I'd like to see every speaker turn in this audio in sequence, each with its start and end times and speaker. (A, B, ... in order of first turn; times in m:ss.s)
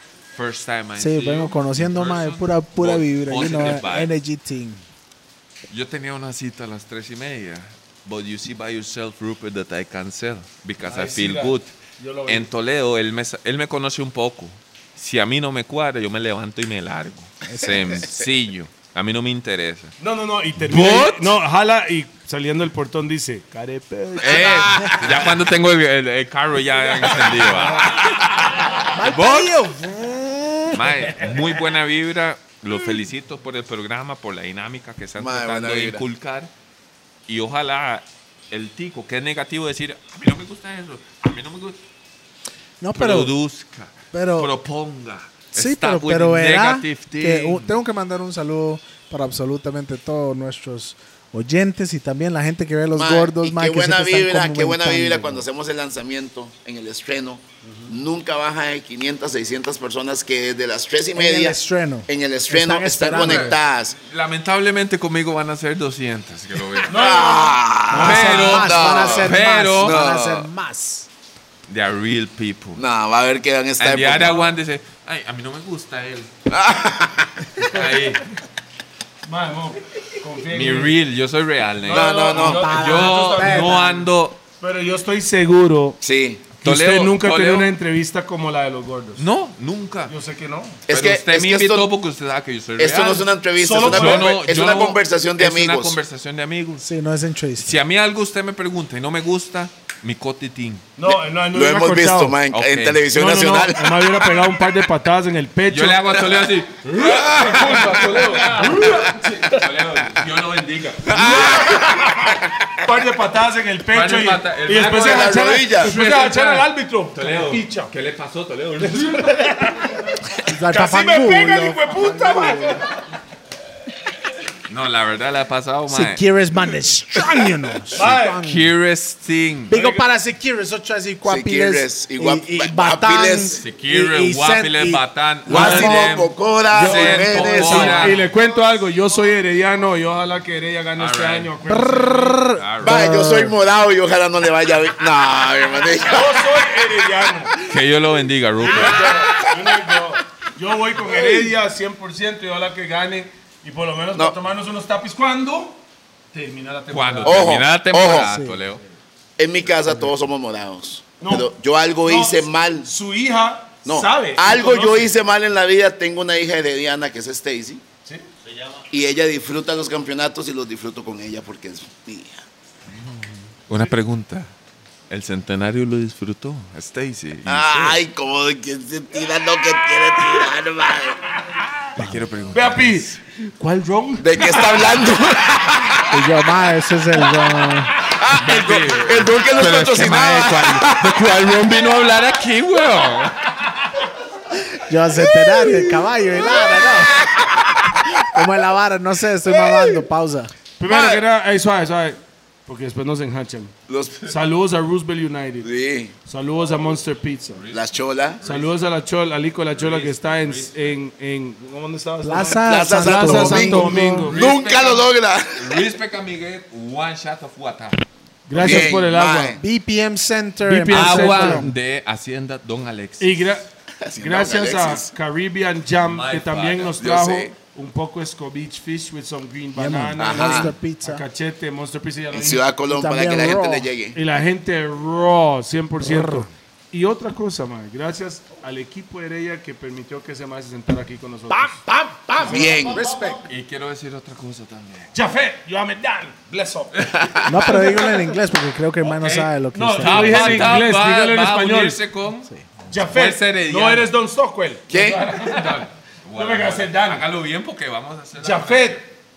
0:00.3-0:04.1 A
0:01.0-0:04.8 B
0:05.7-0:11.7 A
0:10.9-0:12.5 C
0:12.3-0:19.9 A
0:20.0-0:24.7 C
0:20.6-0:21.4 A
0:24.2-0:29.6 A
0:24.2-0:25.3 D
0:26.7-0:28.0 C
0:27.7-0:28.1 B
0:28.9-0:31.6 B
0:30.7-0:36.5 A
0:35.2-0:36.0 D
0:37.3-0:41.8 A
0:42.8-0:43.3 B
0:42.9-0:47.8 A
0:44.1-0:44.5 B
0:45.5-0:55.5 B
0:53.0-1:01.6 D
0:57.6-0:57.9 C
1:01.2-1:03.6 B
1:02.1-1:04.0 D
1:03.1-1:07.0 A
1:06.9-1:09.0 C
1:06.9-1:10.5 D
1:07.9-1:11.1 B
1:08.0-1:10.0 A
1:11.7-1:12.8 A
1:12.8-1:14.5 D
1:13.8-1:16.3 A
1:16.5-1:17.5 D
1:17.7-1:18.3 A
1:19.2-1:20.9 C
1:20.5-1:24.4 A
1:21.8-1:23.9 C
1:21.9-1:22.7 D
1:22.3-1:24.1 B
1:24.6-1:26.0 C
1:26.0-1:26.4 D
1:26.6-1:27.7 A
1:26.6-1:29.3 C
1:29.2-1:30.2 A
1:30.1-1:30.8 C
1:30.9-1:31.9 D
1:30.9-1:33.3 A
1:32.8-1:36.0 D
1:33.6-1:34.3 C
1:33.8-1:36.9 A
1:36.8-1:37.7 B
1:37.6-1:40.9 A
1:41.0-1:42.4 C
1:41.5-1:44.3 D
1:42.5-1:43.0 A
1:43.1-1:46.3 C
1:45.7-1:51.8 A
1:47.0-1:48.2 D
1:47.3-1:49.7 C
1:51.1-1:52.4 D
1:51.7-1:57.9 C
1:53.9-1:59.8 A
1:54.8-1:55.9 D
1:58.8-2:00.2 C
2:00.4-2:02.8 B
2:00.7-2:02.9 C
2:04.7-2:06.2 A
2:05.9-2:08.7 B
2:07.9-2:08.4 C
2:08.4-2:09.7 A
2:09.7-2:16.0 B
2:09.7-2:10.1 C
2:11.2-2:13.6 D
2:13.6-2:18.2 A
2:15.5-2:18.2 D
2:16.7-2:18.3 B
2:17.7-2:22.4 C
2:21.0-2:21.5 A
2:21.6-2:23.6 B
2:22.5-2:23.1 A
2:22.8-2:26.9 D
2:26.1-2:27.5 C
2:27.6-2:29.5 A
2:28.6-2:35.8 C
2:28.7-2:29.6 D
2:36.3-2:37.5 C
2:36.9-2:38.8 A
2:37.2-2:38.3 D
2:38.1-2:38.6 B
2:39.4-2:42.9 D
2:41.2-2:41.5 C
2:42.0-2:45.1 C
2:43.8-2:47.8 D
2:48.9-2:52.4 D
2:53.7-2:54.5 A
2:55.1-2:58.0 A
2:57.5-3:01.2 D
3:02.0-3:03.1 A
3:02.0-3:02.3 B
3:02.5-3:05.0 C
3:04.2-3:06.2 D
3:06.1-3:08.0 B
3:08.0-3:11.5 D
3:08.2-3:13.8 A
3:14.9-3:17.2 B
3:15.1-3:18.3 D
3:18.0-3:20.5 B
3:19.5-3:20.0 D
3:20.8-3:23.7 C
3:20.9-3:21.2 D
3:23.9-3:24.3 D
3:24.3-3:25.7 C
3:25.6-3:26.1 D
3:26.2-3:27.6 C
3:27.5-3:28.7 A
3:27.7-3:28.4 D
3:28.4-3:34.5 C
3:29.7-3:31.0 A
3:32.2-3:34.3 B
3:32.7-3:35.9 D
3:34.2-3:38.0 A
3:38.5-3:39.6 C
3:38.6-3:39.0 B
3:38.6-3:39.6 D
3:39.6-3:41.7 B
3:40.6-3:41.7 C
3:40.9-3:43.6 A
3:43.2-3:43.6 C
3:44.0-3:45.1 D
3:44.2-3:52.6 C
3:46.0-3:47.0 A
3:47.0-3:47.5 D
3:49.8-3:51.2 B
3:50.2-3:50.7 D
3:52.3-3:54.2 D
3:52.9-3:53.9 B
3:54.2-4:01.8 C
3:56.0-3:56.5 B
4:01.5-4:03.4 B
4:02.4-4:03.0 C
4:02.4-4:03.0 D
4:03.5-4:05.1 A
4:05.1-4:08.4 C
4:06.9-4:07.6 A
4:07.3-4:07.6 D
4:07.5-4:10.8 B
4:09.0-4:14.1 A
4:09.7-4:12.0 C
4:12.9-4:17.2 C
4:14.9-4:15.2 D
4:15.1-4:19.0 A
4:18.4-4:19.1 C